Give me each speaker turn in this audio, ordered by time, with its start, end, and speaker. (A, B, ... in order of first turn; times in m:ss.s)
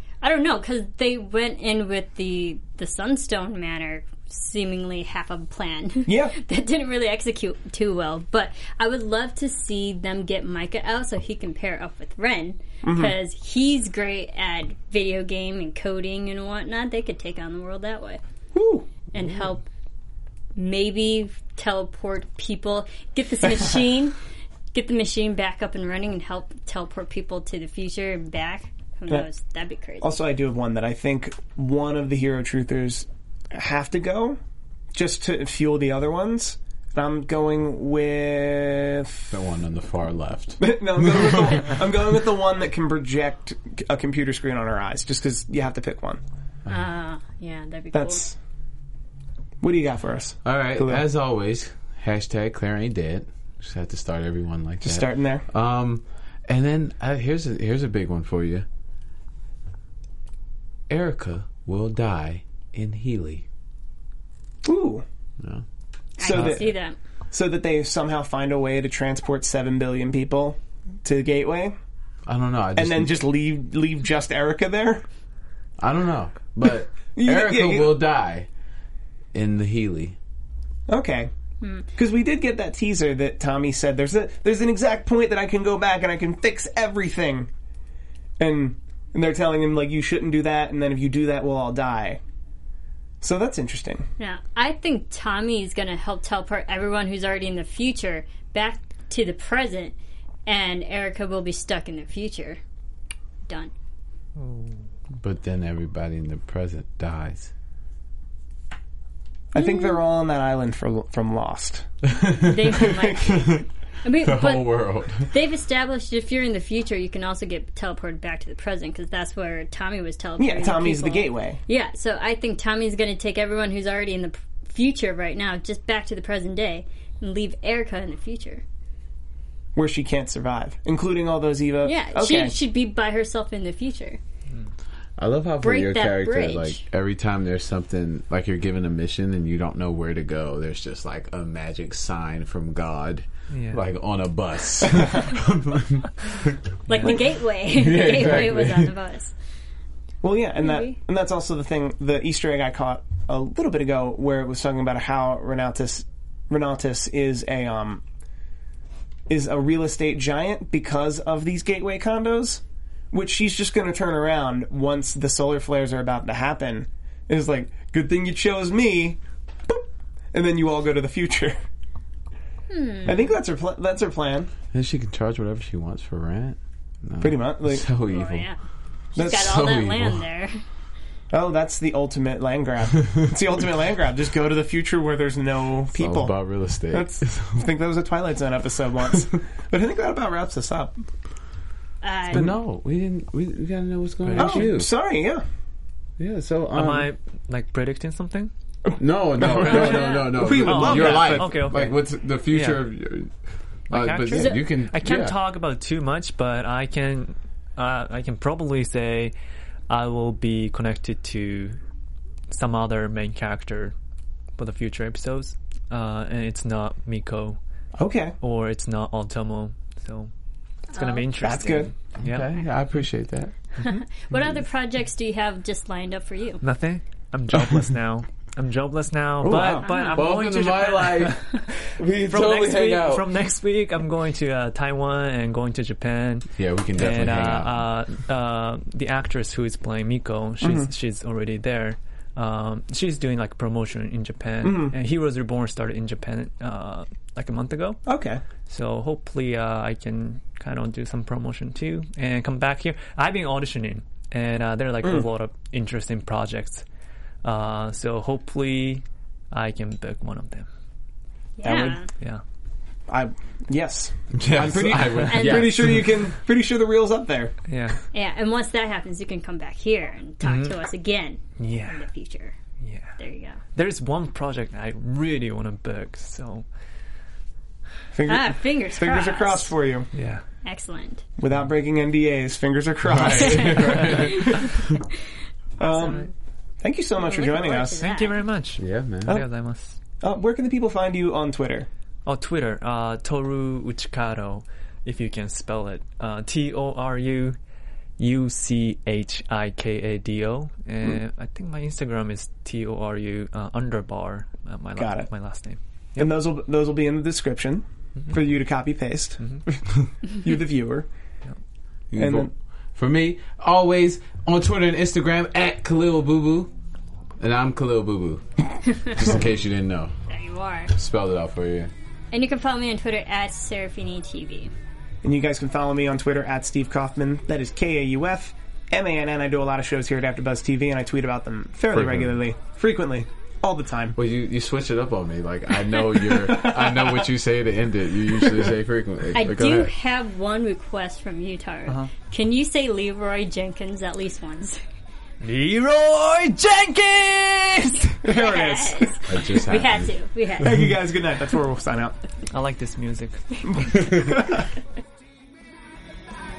0:00.2-0:18.2 A
0:06.0-0:06.3 B
0:12.8-0:13.1 B
0:18.5-0:18.9 B
0:19.1-0:19.6 A
0:20.6-0:24.2 A
0:24.7-0:30.2 A
0:30.0-0:34.4 B
0:34.9-0:39.3 B
0:39.3-0:41.7 C
0:40.6-0:46.2 B
0:46.7-0:48.3 A
0:47.9-0:48.3 B
0:49.6-0:51.0 B
0:50.4-0:58.6 C
0:54.8-0:55.4 B
1:00.9-1:03.4 C
1:04.6-1:05.0 B
1:05.4-1:05.6 C
1:06.2-1:07.0 A
1:06.2-1:06.8 B
1:07.3-1:11.8 B
1:12.3-1:13.2 C
1:12.8-1:15.0 B
1:15.8-1:18.5 C
1:17.2-1:18.0 B
1:19.3-1:20.2 C
1:20.9-1:21.3 B
1:21.6-1:21.9 A
1:22.0-1:27.5 B
1:28.4-1:32.2 B
1:33.2-1:34.0 B
1:34.2-1:39.9 A
1:40.4-1:42.6 A
1:43.5-1:43.7 A
1:44.4-1:44.8 D
1:45.2-1:47.5 C
1:49.5-1:51.9 B
1:49.6-1:50.0 A
1:52.0-1:53.6 C
1:52.4-2:08.6 A
1:52.8-1:53.4 B
1:54.2-1:55.3 C
2:00.4-2:01.6 B
2:09.7-2:12.5 B
2:11.8-2:14.2 A
2:15.2-2:26.6 C
2:15.6-2:16.8 A
2:23.5-2:23.8 D
2:26.9-2:29.3 A
2:27.6-2:28.9 C
2:30.2-2:38.0 B
2:30.6-2:31.0 A
2:39.3-2:51.6 B
2:52.7-2:53.3 A
2:53.0-2:54.5 B
2:54.7-2:58.5 C
2:57.2-2:57.9 B
2:58.1-2:58.6 A
2:59.1-3:00.6 A
2:59.2-2:59.6 B
2:59.2-3:00.2 C
3:01.3-3:06.4 B
3:05.9-3:07.6 C
3:06.9-3:11.0 B
3:12.0-3:12.5 A
3:12.3-3:14.9 C
3:14.2-3:14.7 D
3:14.4-3:15.4 B
3:16.2-3:17.1 C
3:16.7-3:18.5 D
3:18.9-3:21.5 B
3:19.0-3:23.3 C
3:19.6-3:20.3 A
3:20.6-3:21.9 D
3:22.5-3:22.8 D
3:23.9-3:25.4 C
3:23.9-3:29.3 D
3:29.9-3:31.8 D
3:32.5-3:33.9 D
3:34.6-3:37.6 D
3:38.0-3:38.4 B
3:38.4-3:40.3 D
3:40.9-3:42.5 D
3:40.9-3:41.3 A
3:41.4-3:41.9 B
3:42.2-3:43.5 C
3:43.8-3:46.6 A
3:46.6-4:08.0 D
3:49.4-3:49.9 B
3:49.8-3:50.3 A
3:50.1-3:53.3 C
3:56.6-3:57.8 C
4:00.6-4:00.9 B
4:04.6-4:04.9 B
4:08.1-4:08.4 B
4:08.7-4:16.8 D
4:17.4-4:20.7 D
4:21.6-4:22.1 A
4:21.6-4:22.0 B
4:22.1-4:22.4 D
4:23.1-4:27.5 B
4:24.3-4:26.1 C
4:25.3-4:25.8 A
4:27.7-4:28.0 D
4:28.1-4:32.5 A
4:30.4-4:30.7 D
4:31.6-4:32.0 D
4:32.8-4:33.2 D
4:33.2-4:33.6 A
4:33.7-4:36.6 D
4:38.1-4:40.1 B
4:38.3-4:39.7 A
4:40.1-4:40.4 D
4:40.6-4:41.2 A
4:41.4-4:44.7 B
4:43.0-4:45.0 C
4:43.3-4:44.9 A
4:45.8-4:46.3 A
4:45.8-4:46.2 B
4:46.8-4:48.0 B
4:47.2-4:48.4 A
4:47.8-4:50.0 D
4:48.8-4:49.4 C
4:50.2-4:51.9 B
4:52.2-4:57.6 D
4:58.2-5:06.3 D
5:05.0-5:05.3 B
5:06.2-5:11.1 B
5:12.1-5:16.7 C
5:12.2-5:12.5 B
5:17.4-5:18.4 C
5:19.0-5:20.1 C
5:20.3-5:20.9 A
5:20.9-5:21.9 C
5:22.3-5:24.7 A
5:25.2-5:34.2 B
5:31.9-5:32.4 C
5:34.1-5:39.9 C
5:36.3-5:37.2 B
5:39.3-5:44.8 A
5:45.4-5:48.2 D
5:48.2-5:49.1 B
5:48.2-5:50.8 A
5:49.3-5:50.1 C
5:50.6-5:52.2 B
5:52.5-5:53.7 D
5:53.7-5:54.6 B